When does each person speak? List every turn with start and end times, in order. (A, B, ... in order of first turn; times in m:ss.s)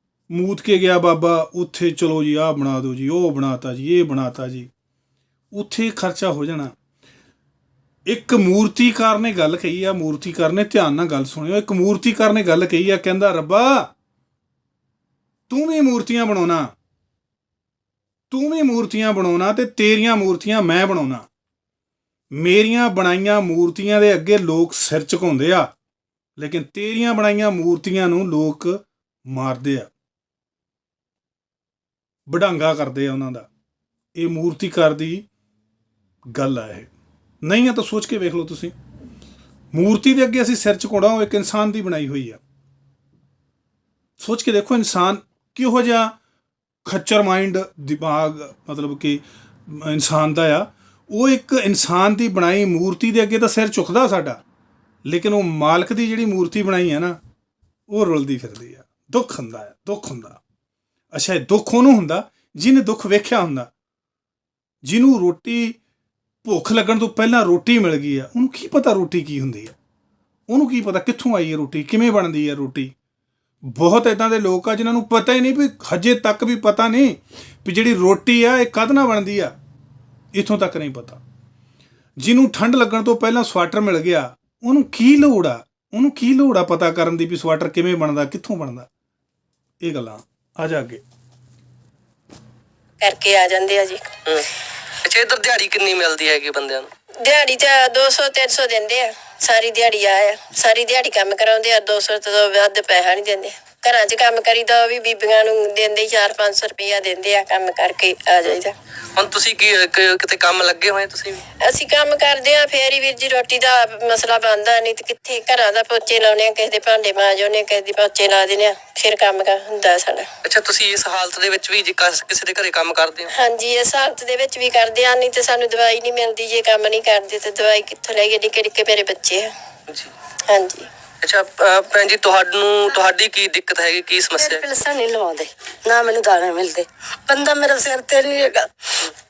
0:00.3-0:04.7 A
0:05.5-0:06.7 A
0:08.1-0:13.9 A
0:15.5-0:16.7 A
0:18.3-0:21.3 A
0:22.3-0:25.7 A
0:26.4-0:29.9 A
0:32.3-0:33.5 A
0:34.2-0:35.3 A
0:36.3-0:36.9 A
0:37.4-0:38.8 A
0:39.7-0:42.4 A
0:44.2-0:46.2 A
0:46.9-0:54.4 A
0:55.0-0:57.2 A
0:57.9-1:00.4 A
1:01.1-1:03.7 A
1:04.8-1:05.8 A
1:06.4-1:09.8 A
1:10.5-1:12.9 A
1:13.6-1:19.6 A
1:20.3-1:21.2 A
1:22.2-1:28.9 A
1:29.8-1:31.0 A
1:33.0-1:34.0 B
1:35.0-1:36.9 C
1:37.2-1:48.7 B
1:49.2-1:51.4 C
1:51.6-2:00.3 B
2:00.4-2:03.3 C
2:03.3-2:09.5 B
2:10.5-2:10.9 B
2:11.2-2:14.6 C
2:14.4-2:18.7 D